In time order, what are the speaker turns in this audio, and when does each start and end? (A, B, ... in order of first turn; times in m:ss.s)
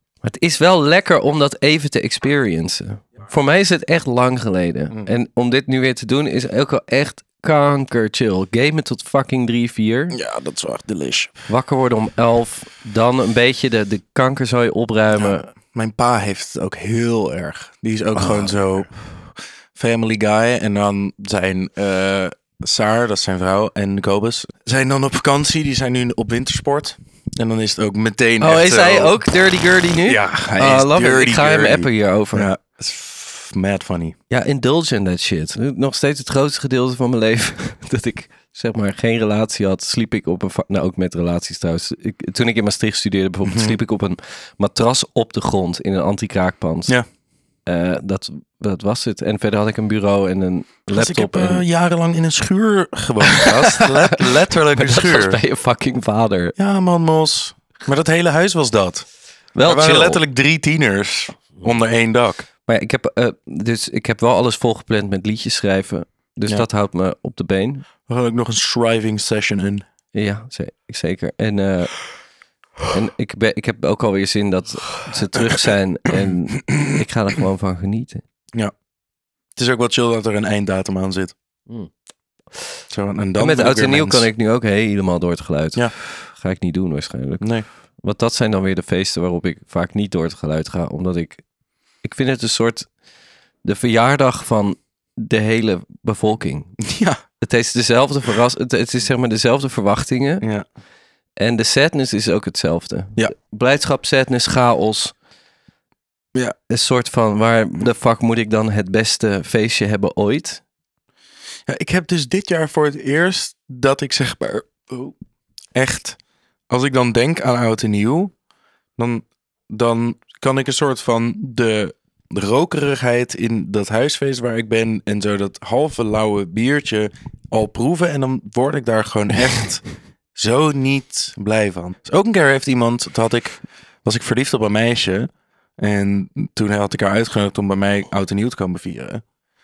0:00.2-0:10.2 A
0:10.1-0:11.4 B
0:11.5-0:15.5 A
0:15.2-0:29.2 B
0:18.2-0:18.5 A
0:28.4-0:32.5 A
0:30.0-0:34.2 B
0:34.3-0:46.9 A
0:43.4-0:43.8 B
0:47.6-0:51.6 A
0:50.9-0:55.4 B
0:53.3-0:54.1 A
0:54.7-0:56.5 A
0:56.6-0:59.1 B
0:59.5-1:00.2 A
0:59.6-1:02.5 B
1:02.7-1:07.8 A
1:08.1-1:09.8 B
1:10.1-1:12.1 A
1:12.9-1:18.2 A
1:19.6-1:21.3 B
1:22.9-1:24.3 B
1:23.4-1:31.4 A
1:27.4-1:27.6 B
1:32.0-1:32.9 A
1:33.6-1:36.8 A
1:36.8-1:37.2 B
1:37.4-1:40.4 A
1:41.4-1:45.1 A
1:46.7-1:50.6 A
1:51.7-1:55.2 B
1:55.7-1:56.2 B
1:56.7-1:58.3 B
1:59.0-2:19.2 B